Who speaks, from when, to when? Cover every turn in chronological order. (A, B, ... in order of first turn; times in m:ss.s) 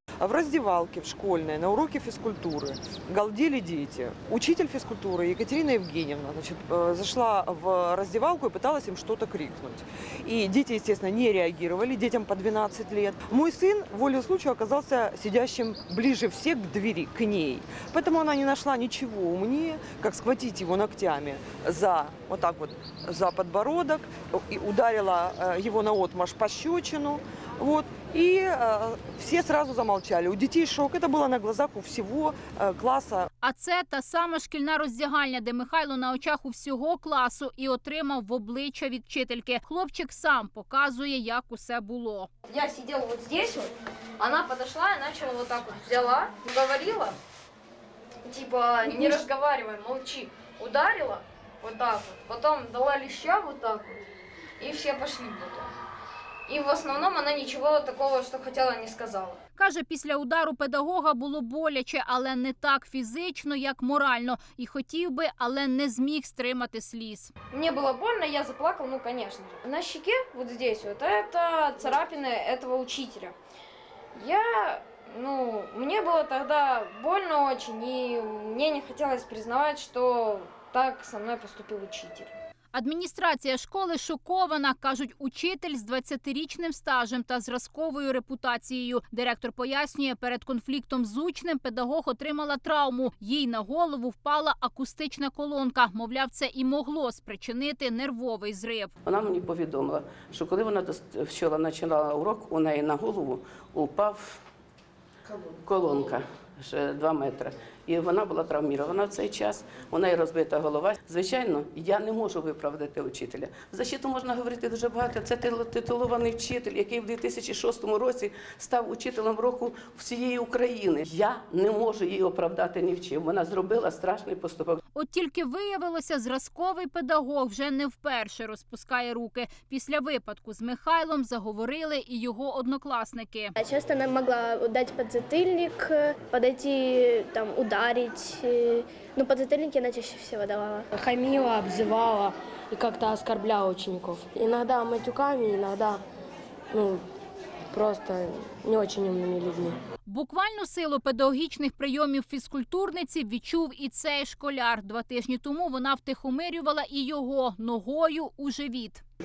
0:00.2-0:33.3 A
0:33.4-0:42.3 B
0:42.5-0:47.2 C
0:48.2-0:54.0 C
0:54.6-0:55.7 C
0:56.5-0:59.4 C
0:59.6-1:07.3 B
1:07.5-1:13.4 C
1:14.1-1:22.3 C
1:22.7-1:38.9 B
1:39.0-1:44.4 D
1:45.3-2:04.8 D
2:04.9-2:13.5 B
2:13.6-2:20.9 E
2:21.0-2:26.0 F
2:26.7-2:27.0 F
2:27.7-2:29.7 F
2:30.0-2:39.0 B